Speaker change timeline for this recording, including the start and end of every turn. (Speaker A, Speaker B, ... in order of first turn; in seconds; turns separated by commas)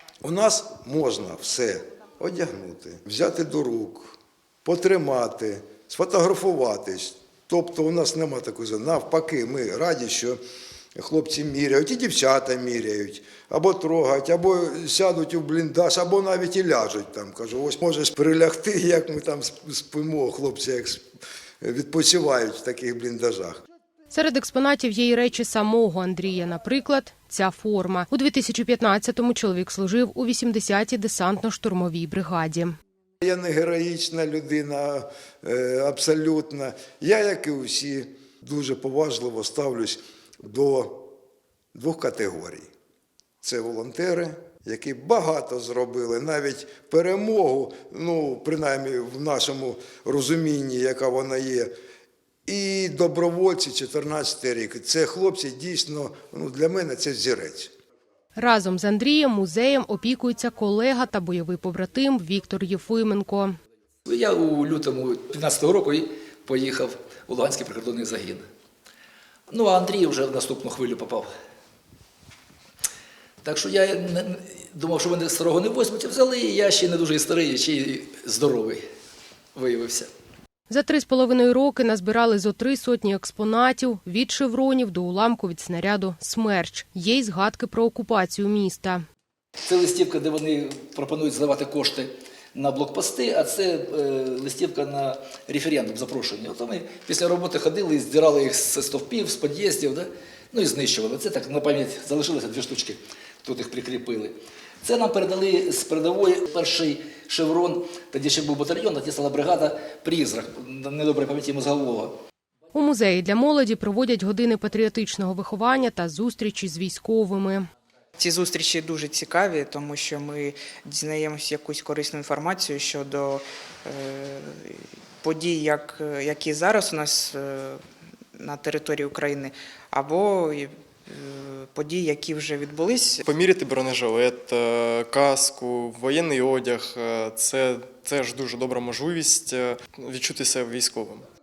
Speaker A: 0.2-10.4, Speaker A: 10.9-21.0, Speaker A: 21.6-23.6, Speaker B: 24.1-32.8, Speaker A: 33.2-41.1, Speaker A: 41.7-42.7, Speaker A: 43.4-51.7, Speaker A: 52.5-57.7, Speaker B: 58.4-63.5, Speaker C: 64.1-68.5, Speaker C: 69.5-71.3, Speaker C: 73.4-78.8, Speaker C: 79.5-80.1, Speaker B: 80.7-89.0, Speaker C: 89.6-112.2, Speaker B: 112.7-117.7, Speaker D: 118.2-127.8, Speaker D: 128.3-133.2, Speaker E: 133.2-141.2